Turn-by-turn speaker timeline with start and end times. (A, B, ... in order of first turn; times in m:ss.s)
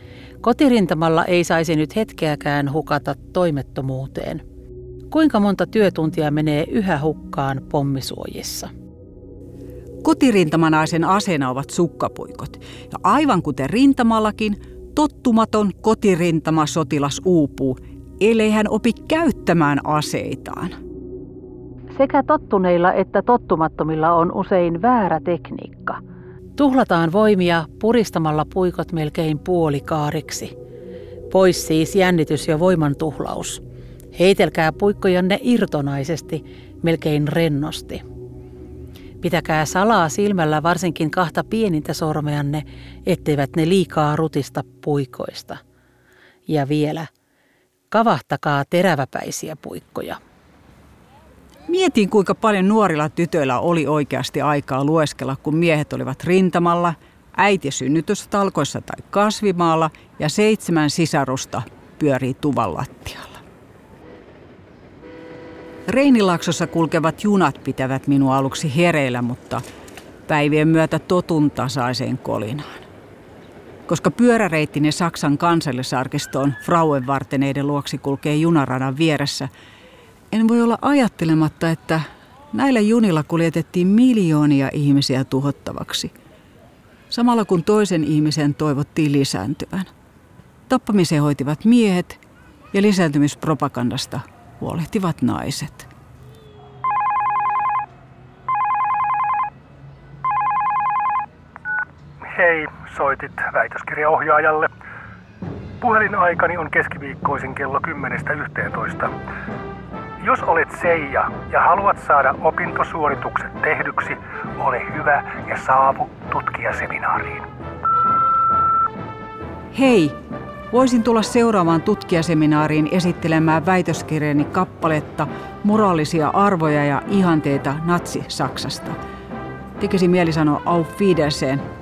0:00.4-0:04.4 A
0:05.1-0:08.7 A
0:10.0-0:20.8 B
0:21.9-0:26.0 A
0:26.6-0:30.5 A
0:31.3-0:33.6 A
0:34.1-0:38.0 A
0:39.2-0:45.6 A
0:46.5-0:47.1 A
0:47.9-0:50.2 A
0:51.7-1:03.4 B
1:05.9-1:09.6 B
1:10.3-1:12.8 B
1:13.9-1:19.5 B
1:20.3-1:26.1 B
1:27.1-1:29.9 B
1:30.7-1:32.2 B
1:32.7-1:35.9 B
1:42.3-1:44.7 C
1:45.8-1:49.1 C
1:50.2-1:57.5 C
1:59.7-2:00.2 B
2:00.7-2:09.0 B
2:09.8-2:11.6 B